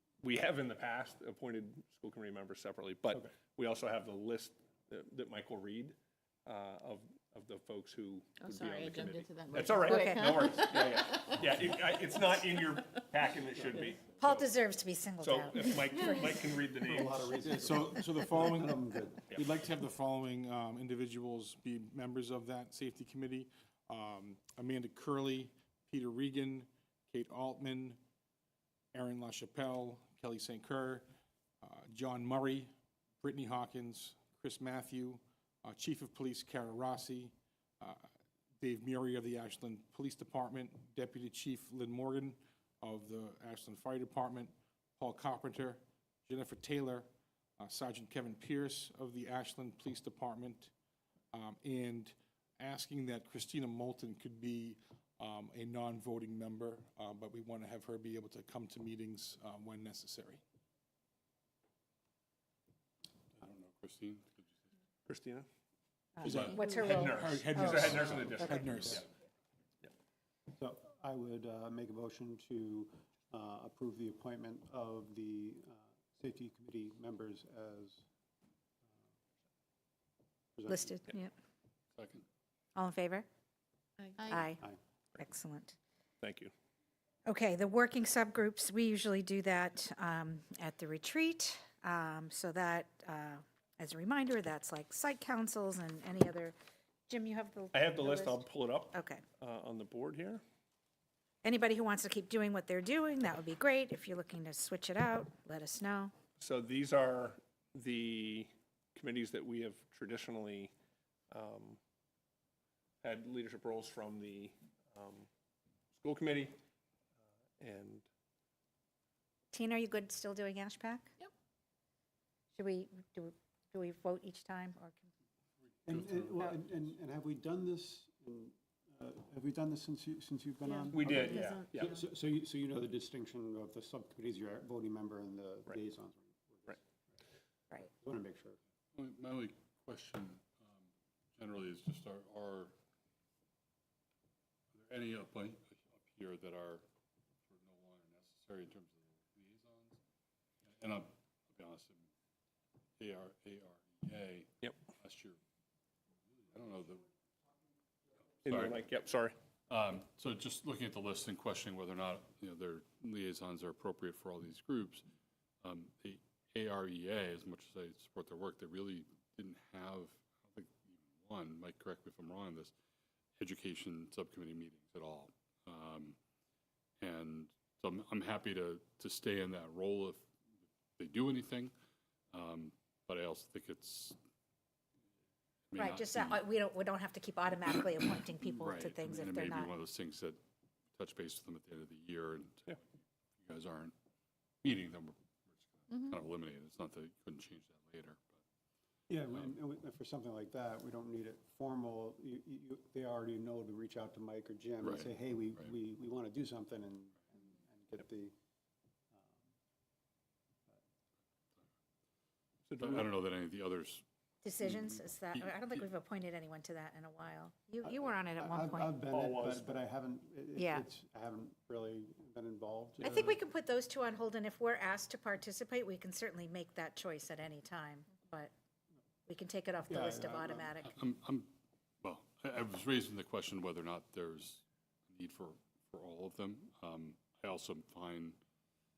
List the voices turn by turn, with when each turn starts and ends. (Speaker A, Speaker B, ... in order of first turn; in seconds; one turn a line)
Speaker A: 0.2-14.5
Speaker B: 8.4-11.3
Speaker C: 9.8-10.4
Speaker C: 14.2-16.3
Speaker A: 15.2-17.2
Speaker D: 16.8-19.3
Speaker E: 17.4-28.0
Speaker E: 28.9-31.1
Speaker E: 31.6-32.7
Speaker E: 33.2-38.1
Speaker E: 38.6-47.1
Speaker E: 47.6-50.7
Speaker E: 51.3-60.4
Speaker F: 63.4-64.6
Speaker A: 65.1-65.5
Speaker C: 66.2-68.6
Speaker E: 66.2-69.0
Speaker A: 66.2-69.0
Speaker F: 67.9-69.0
Speaker D: 70.6-78.0
Speaker D: 80.5-81.0
Speaker C: 80.7-81.3
Speaker F: 82.0-82.2
Speaker C: 82.8-83.3
Speaker B: 84.0-84.5
Speaker C: 84.3-84.6
Speaker C: 85.2-85.8
Speaker A: 86.2-86.5
Speaker C: 87.2-96.5
Speaker C: 97.1-99.2
Speaker A: 97.7-100.4
Speaker C: 101.4-106.1
Speaker A: 106.4-110.7
Speaker A: 111.3-111.8
Speaker A: 113.0-115.3
Speaker A: 115.9-116.5
Speaker A: 117.6-118.0
Speaker C: 119.5-121.1
Speaker C: 122.5-125.1
Speaker D: 125.8-136.8
Speaker F: 125.9-126.6
Speaker B: 130.7-131.8
Speaker A: 130.9-132.0
Speaker D: 138.0-138.6
Speaker F: 138.9-142.7
Speaker F: 144.7-146.8
Speaker F: 147.5-150.0
Speaker F: 150.7-152.1
Speaker F: 153.0-155.4
Speaker F: 156.3-157.1
Speaker F: 158.4-158.8
Speaker A: 158.4-159.3
Speaker F: 159.7-165.0
Speaker F: 165.6-172.7
Speaker F: 173.4-176.2
Speaker F: 177.0-180.3
Speaker F: 181.0-181.7
Speaker F: 182.3-184.2
Speaker F: 185.7-186.4
Speaker C: 185.8-189.7
Speaker F: 188.5-190.4
Speaker F: 190.9-193.9
Speaker F: 194.6-198.4
Speaker D: 199.1-208.3
Speaker F: 204.8-205.7
Speaker D: 209.1-209.4
Speaker A: 212.7-213.1
Speaker F: 212.8-214.0
Speaker C: 214.4-218.9
Speaker F: 214.6-215.9
Speaker D: 217.8-223.4
Speaker A: 219.1-219.8
Speaker C: 220.6-220.8
Speaker C: 223.0-228.5
Speaker C: 229.2-230.9
Speaker D: 229.9-230.7
Speaker F: 230.8-231.5
Speaker F: 232.0-238.4